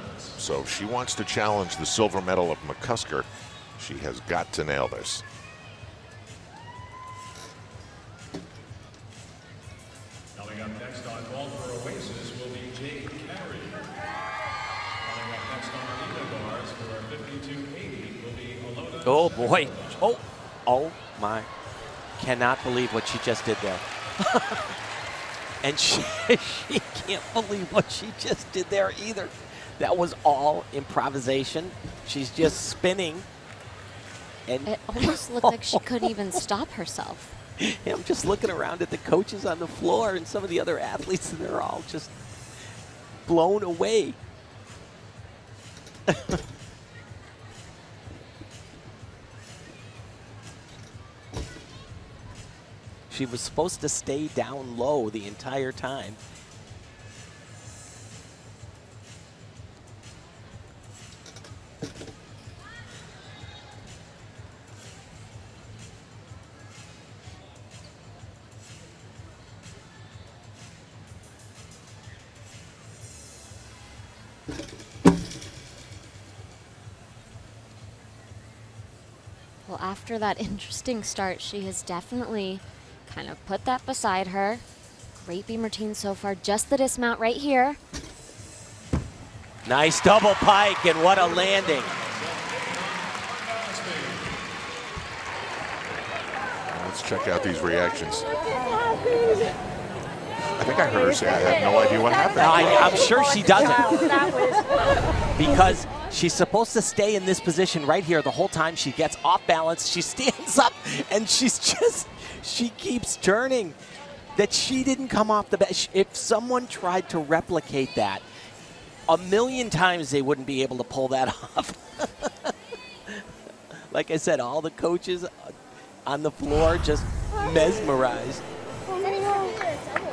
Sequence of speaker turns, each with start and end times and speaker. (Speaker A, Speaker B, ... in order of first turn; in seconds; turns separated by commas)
Speaker A: 0.3-5.2, Speaker B: 10.4-13.7, Speaker B: 15.1-19.0, Speaker C: 19.0-21.5, Speaker C: 22.2-24.8, Speaker C: 25.6-33.2, Speaker C: 34.5-36.1, Speaker D: 34.6-37.3, Speaker C: 37.6-42.1, Speaker C: 43.2-44.2, Speaker C: 46.1-46.4, Speaker C: 53.1-56.2, Speaker D: 79.7-84.6, Speaker D: 85.2-87.8, Speaker C: 89.6-92.0, Speaker A: 96.7-98.3, Speaker A: 100.5-103.1, Speaker C: 102.4-104.3, Speaker C: 105.3-113.8, Speaker C: 114.3-118.2, Speaker C: 119.1-122.5, Speaker C: 123.9-125.5, Speaker C: 126.0-128.4